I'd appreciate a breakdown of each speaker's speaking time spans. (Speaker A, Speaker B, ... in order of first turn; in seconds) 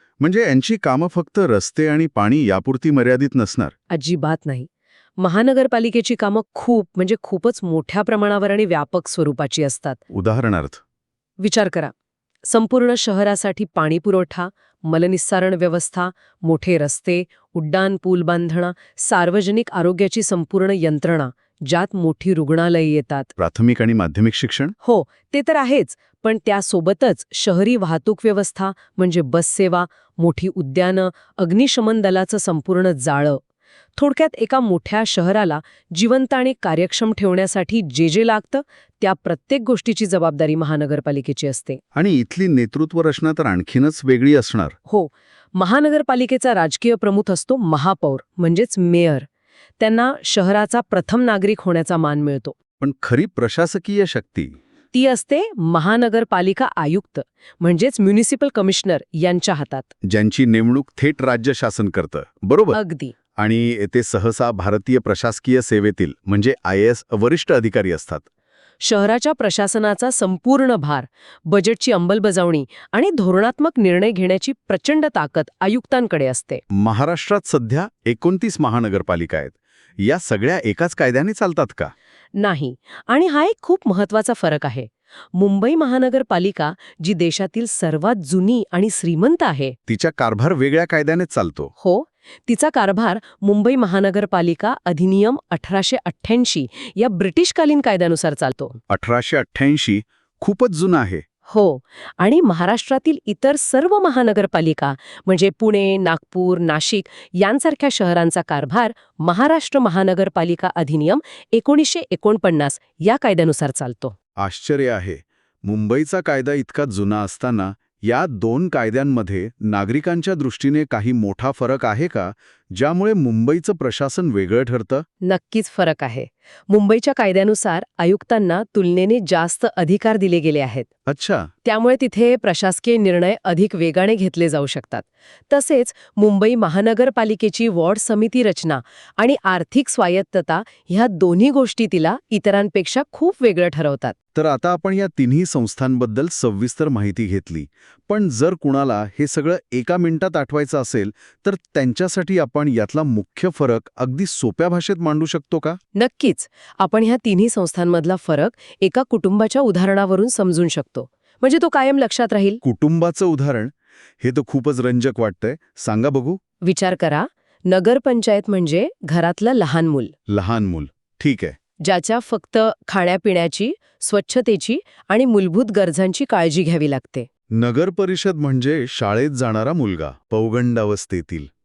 Speaker A: 0.2-3.7, 10.1-10.8, 23.4-24.8, 41.9-44.8, 52.8-54.6, 60.0-62.8, 63.4-68.3, 76.7-81.9, 89.9-91.7, 98.9-101.2, 114.4-125.0, 131.1-131.5, 144.3-155.8, 162.6-166.4, 170.3-171.6, 177.5-181.5
Speaker B: 3.9-10.0, 11.4-11.9, 12.4-23.3, 24.8-33.4, 34.0-41.8, 44.9-49.3, 49.8-52.6, 54.9-59.9, 62.7-63.1, 68.8-76.6, 82.4-89.8, 91.8-98.8, 101.5-114.2, 125.2-130.9, 131.7-144.2, 155.9-162.6, 166.6-170.1, 171.8-177.3